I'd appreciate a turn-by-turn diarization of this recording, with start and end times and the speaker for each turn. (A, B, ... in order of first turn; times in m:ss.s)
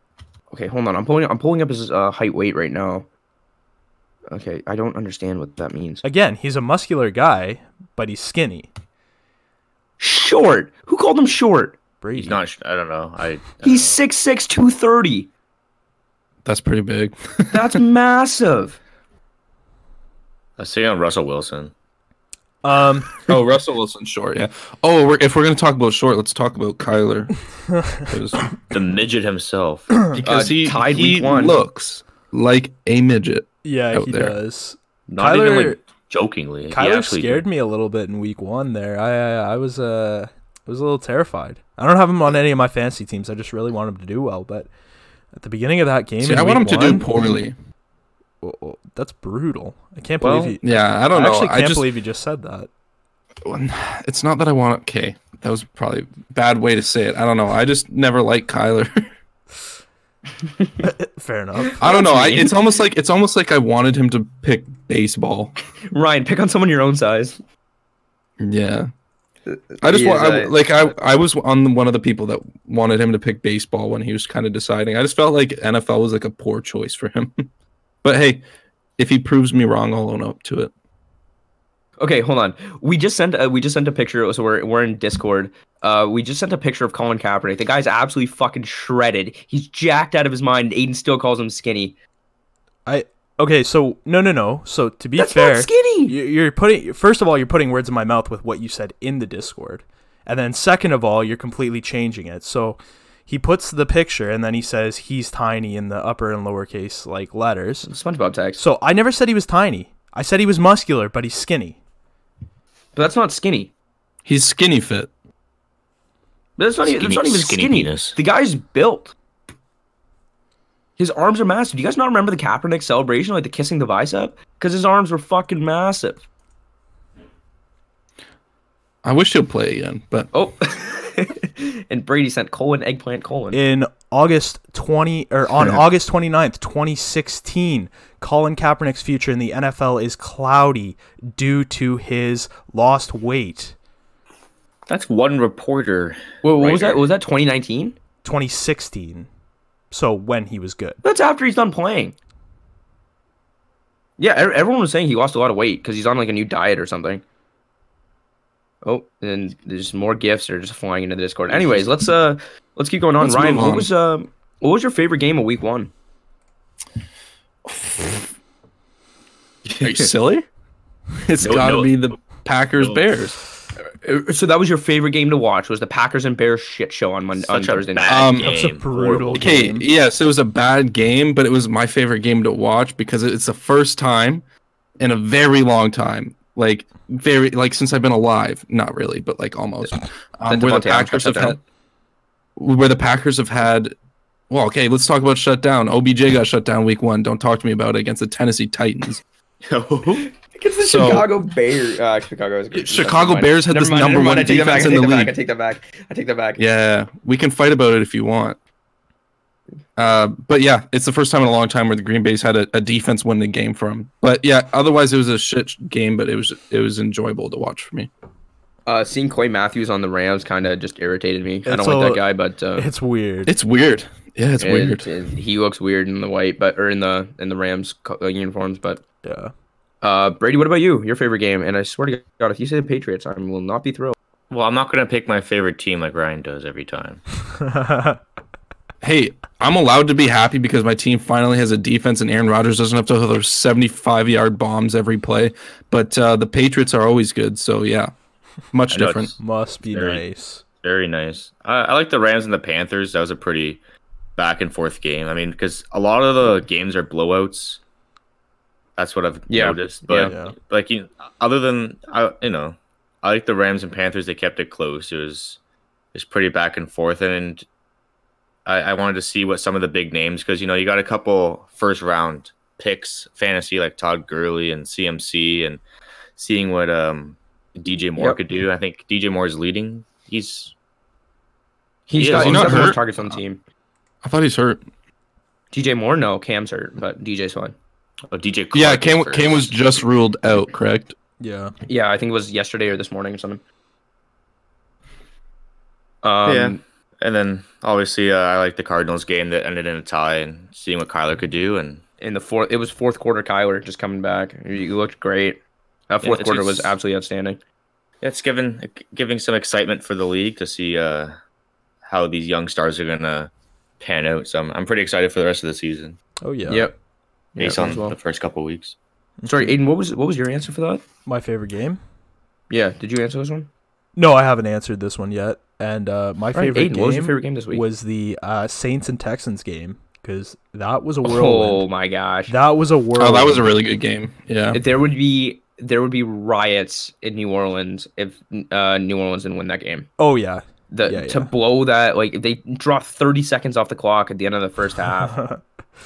0:00.5-0:03.1 A
0:04.3-0:06.0 A
0:06.0-0:08.7 B
0:10.0-0:11.8 A
0:12.0-0:12.4 B
0:12.1-0:14.0 C
0:13.6-0:15.3 A
0:16.4-0:17.8 D
0:17.5-0:18.8 A
0:20.6-0:21.7 C
0:22.6-0:23.2 B
0:23.3-0:27.3 D
0:27.7-0:28.0 B
0:28.0-0:28.4 D
0:28.7-0:30.5 C
0:30.2-0:34.4 D
0:30.2-0:31.6 A
0:33.6-0:35.8 B
0:35.1-0:37.4 C
0:36.7-0:44.7 B
0:45.4-0:47.1 B
0:46.2-0:47.6 D
0:48.4-0:52.7 B
0:50.2-0:50.6 C
0:50.6-0:51.9 D
0:53.4-0:59.0 D
1:00.4-1:00.9 A
1:00.8-1:01.8 B
1:01.7-1:02.6 A
1:01.8-1:05.5 D
1:05.9-1:07.4 A
1:08.4-1:08.9 D
1:09.5-1:10.6 A
1:09.8-1:17.4 D
1:18.0-1:18.4 D
1:19.0-1:20.7 D
1:22.0-1:32.0 A
1:32.9-1:47.9 B
1:35.2-1:36.1 A
1:47.8-1:48.6 A
1:48.6-1:51.8 B
1:52.9-1:53.7 A
1:54.2-1:55.1 D
1:56.6-1:59.1 A
1:56.8-1:58.2 C
2:01.0-2:06.2 A
2:09.0-2:10.3 D
2:10.3-2:13.6 A
2:13.5-2:23.7 B
2:24.9-2:27.1 C
2:26.4-2:28.0 A
2:28.2-2:29.3 B
2:29.9-2:31.0 B
2:31.0-2:32.1 A
2:34.2-2:37.2 A
2:38.8-2:45.9 A
2:41.5-2:41.8 C
2:43.2-2:43.9 D
2:47.6-2:48.3 D
2:49.6-2:50.1 C
2:49.8-2:50.4 D
2:51.2-2:53.4 D
2:51.4-2:52.0 C
2:54.0-2:58.3 A
2:57.4-2:59.6 C
2:58.1-2:58.6 D
2:58.4-2:59.8 B
2:59.4-3:04.4 D
3:05.0-3:11.6 D
3:10.5-3:11.6 A
3:12.6-3:13.9 D
3:14.5-3:19.2 D
3:19.6-3:20.3 C
3:20.2-3:26.6 A
3:20.8-3:21.3 D
3:22.7-3:25.3 D
3:26.6-3:28.6 D
3:30.0-3:38.1 D
3:38.9-3:42.9 A
3:41.6-3:42.2 B
3:42.8-3:43.5 B
3:43.4-3:45.1 D
3:44.6-3:49.0 A
3:49.2-3:49.5 B
3:50.0-3:54.1 A
3:54.5-3:57.2 C
3:57.6-3:58.2 B
3:59.0-4:08.1 D
4:08.7-4:09.4 D
4:08.9-4:09.4 C
4:09.4-4:10.6 B
4:09.9-4:10.2 C
4:10.8-4:13.8 C
4:14.4-4:17.8 C
4:19.0-4:25.6 C
4:19.5-4:20.3 A
4:20.2-4:20.5 B
4:26.1-4:27.6 C
4:28.6-4:35.8 C
4:36.4-4:40.7 C
4:42.1-4:43.6 A
4:42.2-4:43.0 C
4:42.3-4:43.0 D
4:44.2-4:44.8 D
4:45.7-4:47.7 A
4:48.3-4:49.9 C
4:48.7-4:51.1 D
4:51.4-4:51.7 B
4:51.9-4:53.6 A
4:56.2-4:56.8 A
4:56.4-5:02.0 C
5:02.2-5:07.6 A
5:06.2-5:06.9 C
5:08.2-5:11.3 C
5:12.1-5:16.2 C
5:16.4-5:16.9 B
5:16.7-5:16.9 A
5:17.6-5:18.2 A
5:17.6-5:18.9 C
5:19.4-5:19.7 B
5:19.5-5:21.0 A
5:21.2-5:22.0 B
5:22.7-5:23.7 A
5:24.2-5:31.8 B
5:26.5-5:27.8 A
5:31.2-5:32.5 A
5:32.5-5:33.7 B
5:33.2-5:34.8 D
5:34.7-5:40.1 A
5:40.2-5:41.5 B
5:40.9-5:45.4 A
5:45.2-5:45.6 B